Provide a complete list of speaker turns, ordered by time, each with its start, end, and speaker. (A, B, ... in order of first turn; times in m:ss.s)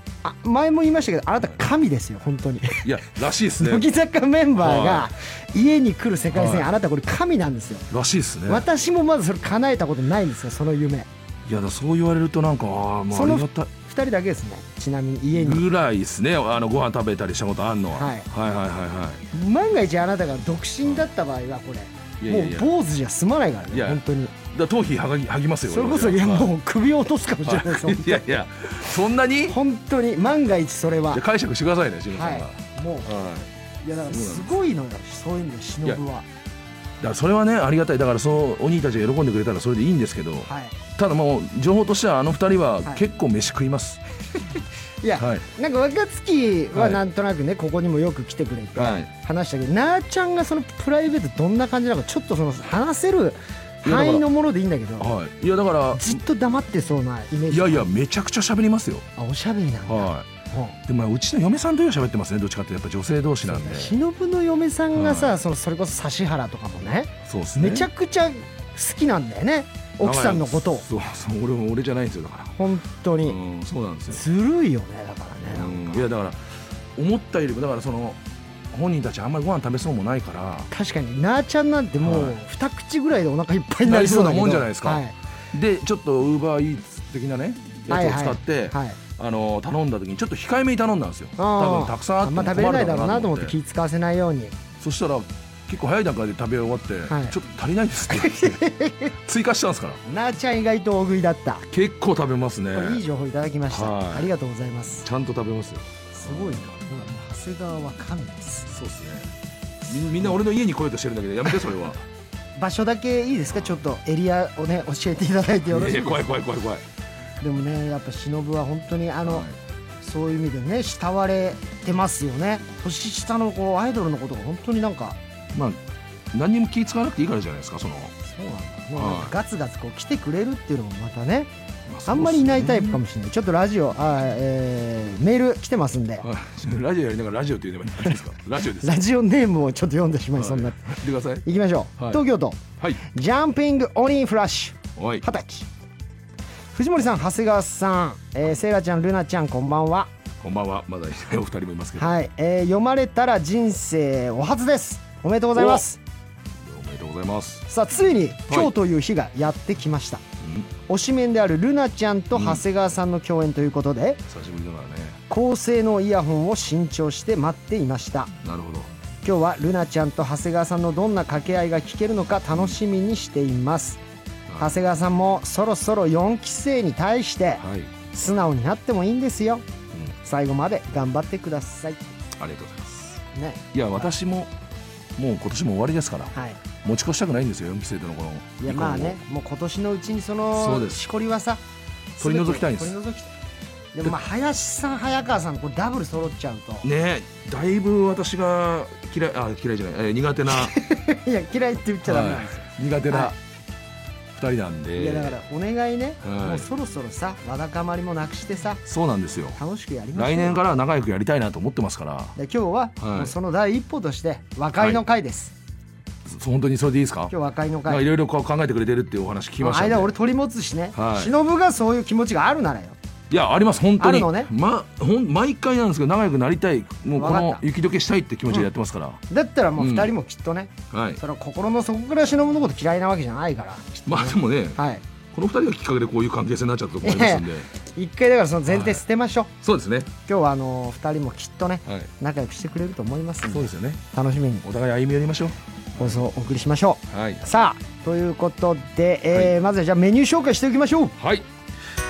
0:00.2-0:02.8 A
0:02.8-0:03.9 B
0:03.6-0:07.9 A
0:04.6-0:05.1 B
0:06.3-0:06.7 B
0:07.9-0:08.6 B
0:08.5-0:11.1 A
0:11.4-0:13.7 B
0:13.1-0:15.6 A
0:15.3-0:19.2 B
0:17.9-0:18.3 A
0:19.3-0:24.3 A
0:22.2-0:22.7 B
0:23.7-0:26.5 B
0:25.7-0:28.2 A
0:27.4-0:29.6 B
0:29.5-0:31.2 A
0:31.1-0:33.5 B
0:32.1-0:33.1 A
0:33.8-0:36.2 A
0:34.1-0:34.6 B
0:37.0-0:44.0 B
0:40.4-0:40.8 A
0:45.0-0:55.1 A
0:45.2-0:45.4 B
0:46.7-0:47.0 B
0:48.8-0:49.1 B
0:53.8-0:54.2 B
0:55.0-0:56.2 B
0:55.9-0:57.9 A
0:57.5-0:59.0 B
0:59.2-1:00.8 A
0:59.8-1:00.3 B
1:00.8-1:04.0 B
1:03.4-1:10.8 A
1:04.9-1:05.4 B
1:07.2-1:07.9 B
1:10.0-1:12.5 B
1:12.6-1:13.4 A
1:13.2-1:14.2 B
1:14.1-1:16.1 A
1:15.5-1:18.2 B
1:18.7-1:20.7 B
1:20.7-1:25.1 A
1:22.0-1:22.4 B
1:23.8-1:33.6 B
1:27.9-1:29.0 A
1:31.4-1:34.5 A
1:34.8-1:38.6 B
1:37.1-1:37.3 A
1:38.1-1:39.1 A
1:39.2-1:40.0 B
1:40.0-1:41.6 A
1:41.7-1:43.0 B
1:42.7-1:45.0 A
1:43.7-1:44.3 B
1:45.0-1:46.8 B
1:46.1-1:48.7 A
1:48.7-1:49.3 B
1:49.9-1:52.0 B
1:52.6-1:56.3 A
1:53.5-1:53.8 B
1:55.7-1:56.8 B
1:57.4-1:59.5 A
1:59.2-1:59.6 B
2:00.0-2:05.2 A
2:05.5-2:05.8 B
2:06.3-2:08.1 B
2:08.2-2:11.5 A
2:08.9-2:09.3 B
2:11.9-2:13.0 B
2:12.0-2:16.2 A
2:16.2-2:19.0 B
2:18.8-2:25.6 A
2:20.4-2:21.4 B
2:25.0-2:25.2 B
2:26.7-2:30.1 A
2:30.4-2:32.2 B
2:32.0-2:36.0 A
2:35.5-2:35.8 B
2:36.6-2:37.6 B
2:37.7-2:40.2 A
2:40.4-2:40.7 B
2:40.9-2:44.2 A
2:42.3-2:42.6 B
2:44.3-2:45.2 B
2:45.3-2:48.3 A
2:48.4-2:48.9 B
2:49.2-2:54.0 A
2:54.5-2:54.8 B
2:54.6-2:59.6 A
2:57.6-2:57.9 B
3:00.2-3:02.1 A
3:02.4-3:03.2 B
3:03.3-3:04.1 A
3:03.7-3:04.5 B
3:05.2-3:09.2 B
3:06.3-3:06.6 A
3:08.6-3:11.6 A
3:10.5-3:11.0 B
3:12.2-3:13.0 B
3:12.2-3:13.3 A
3:13.9-3:16.9 A
3:16.8-3:20.7 B
3:20.5-3:23.3 A
3:22.0-3:23.4 B
3:24.3-3:25.4 B
3:25.0-3:28.8 A
3:26.2-3:26.6 B
3:28.8-3:29.6 B
3:29.6-3:30.6 A
3:30.1-3:32.4 B
3:32.4-3:35.5 A
3:33.0-3:33.3 B
3:36.2-3:37.3 B
3:37.3-3:38.0 A
3:37.8-3:40.1 B
3:39.6-3:43.0 A
3:40.9-3:41.3 B
3:43.3-3:49.2 B
3:44.0-3:44.5 A
3:47.2-3:47.6 A
3:49.3-3:55.0 A
3:49.8-3:50.1 B
3:50.9-3:51.2 B
3:54.1-3:54.8 B
3:55.3-3:57.7 B
3:57.0-3:59.5 A
3:58.7-3:59.0 B
3:59.6-4:00.1 B
4:00.3-4:04.6 A
4:01.8-4:02.1 B
4:03.5-4:04.0 B
4:04.6-4:06.2 B
4:06.0-4:11.2 A
4:07.1-4:07.4 B
4:11.2-4:11.5 B